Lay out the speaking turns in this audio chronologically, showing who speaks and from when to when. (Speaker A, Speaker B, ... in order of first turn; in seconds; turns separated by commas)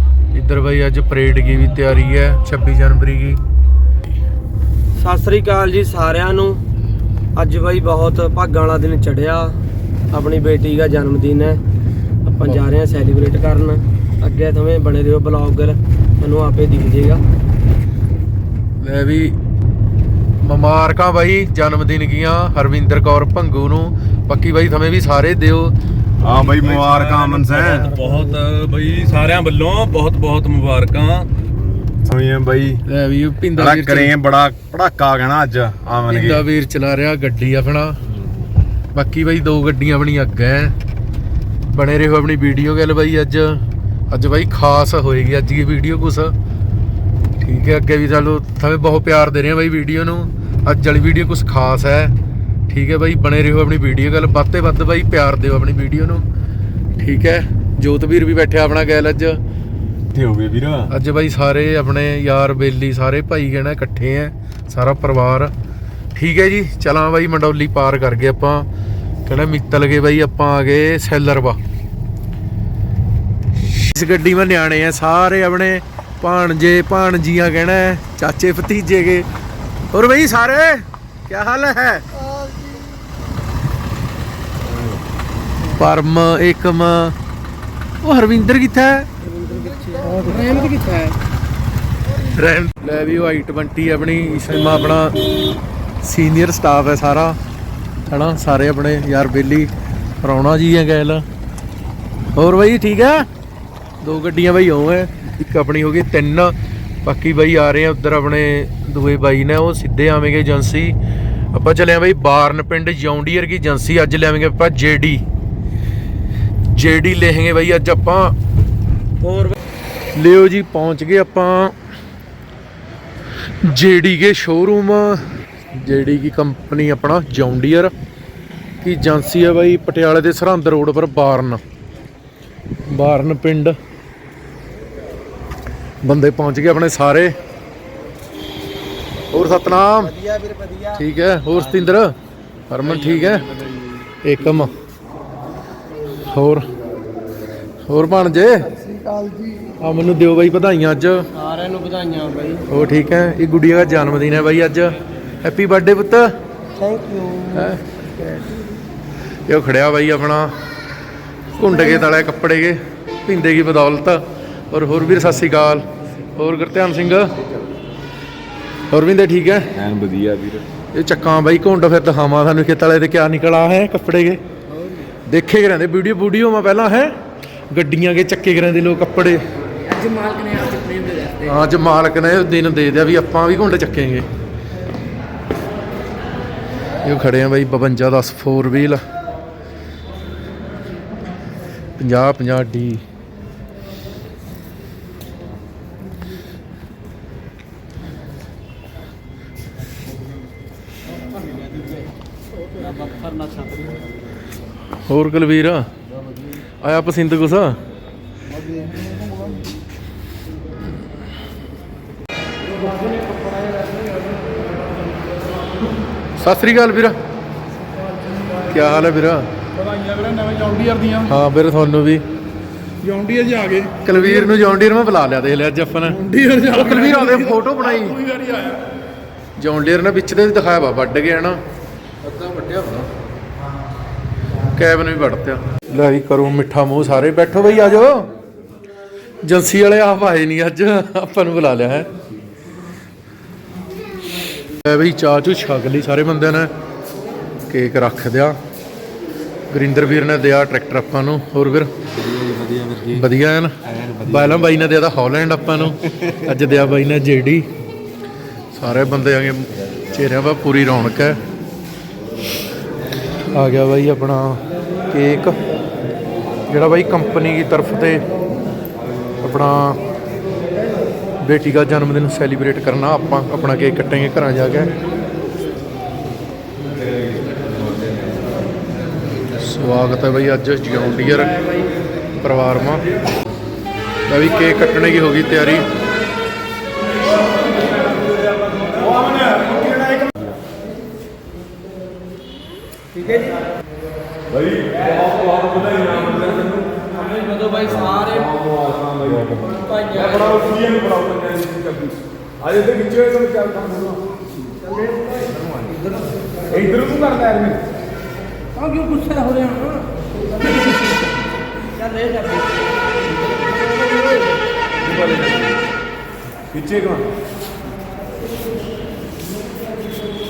Speaker A: 0.3-3.4, Speaker B: 5.0-6.6, Speaker B: 7.4-9.6, Speaker B: 10.1-11.6, Speaker B: 12.2-17.2, Speaker A: 18.8-19.4, Speaker A: 20.4-25.8, Speaker C: 26.2-27.9, Speaker D: 26.3-31.3, Speaker C: 32.0-32.8, Speaker A: 32.9-34.1, Speaker C: 33.6-36.4, Speaker A: 36.1-38.0, Speaker A: 38.9-40.7, Speaker A: 41.7-46.3, Speaker A: 47.4-52.1, Speaker A: 52.7-56.3, Speaker A: 57.0-59.4, Speaker C: 60.1-60.9, Speaker A: 60.9-65.5, Speaker A: 66.2-68.7, Speaker A: 69.3-71.6, Speaker A: 73.6-79.3, Speaker A: 79.9-82.1, Speaker A: 85.7-87.2, Speaker A: 88.0-89.1, Speaker B: 89.2-91.1, Speaker A: 92.2-95.2, Speaker A: 96.0-97.4, Speaker A: 98.1-101.2, Speaker A: 102.3-103.3, Speaker A: 104.0-111.0, Speaker A: 111.5-115.2, Speaker A: 116.7-118.3, Speaker B: 119.2-119.5, Speaker A: 120.2-121.7, Speaker A: 123.6-127.9, Speaker A: 128.8-131.6, Speaker A: 132.8-133.8, Speaker A: 136.0-137.3, Speaker A: 139.3-140.2, Speaker B: 140.0-141.0, Speaker A: 140.9-142.1, Speaker A: 142.7-143.5, Speaker B: 142.9-144.0, Speaker A: 144.2-144.7, Speaker A: 146.1-146.7, Speaker A: 147.9-148.7, Speaker B: 148.8-149.8, Speaker A: 149.8-151.3, Speaker B: 151.3-152.7, Speaker A: 152.7-156.3, Speaker B: 156.8-158.7, Speaker A: 157.5-157.8, Speaker A: 159.5-160.6, Speaker A: 161.6-167.4, Speaker A: 168.9-169.7, Speaker C: 169.8-170.7, Speaker A: 170.9-174.4, Speaker A: 175.3-177.2, Speaker A: 177.7-179.4, Speaker B: 179.9-181.3, Speaker A: 181.2-184.3, Speaker A: 187.0-189.0, Speaker A: 192.0-193.0, Speaker B: 203.1-203.9, Speaker A: 205.1-205.9, Speaker A: 206.8-207.8, Speaker B: 212.9-213.8, Speaker A: 216.4-217.2, Speaker A: 218.5-219.5, Speaker E: 219.8-221.2, Speaker A: 221.1-222.2, Speaker E: 223.0-224.0, Speaker A: 224.0-228.5, Speaker E: 226.3-227.2, Speaker E: 228.2-228.8, Speaker A: 229.6-231.6, Speaker A: 232.2-233.1, Speaker A: 234.7-238.3, Speaker A: 239.4-242.1, Speaker A: 244.8-246.7, Speaker A: 247.7-248.6, Speaker A: 249.7-251.9, Speaker C: 252.4-252.8, Speaker B: 252.5-252.8, Speaker A: 253.0-257.7, Speaker A: 258.7-261.4, Speaker A: 263.5-265.6, Speaker A: 266.7-268.2, Speaker A: 269.4-270.0, Speaker A: 271.4-274.9, Speaker A: 279.6-281.6, Speaker A: 282.4-283.1, Speaker A: 284.3-285.9, Speaker B: 288.8-289.1, Speaker C: 289.3-290.4, Speaker B: 293.1-293.6, Speaker C: 294.5-297.0, Speaker B: 297.2-298.5, Speaker C: 298.0-304.2, Speaker B: 299.9-300.6, Speaker B: 305.1-305.9, Speaker C: 306.7-307.8, Speaker B: 308.8-310.0, Speaker B: 311.9-312.8, Speaker C: 316.7-317.2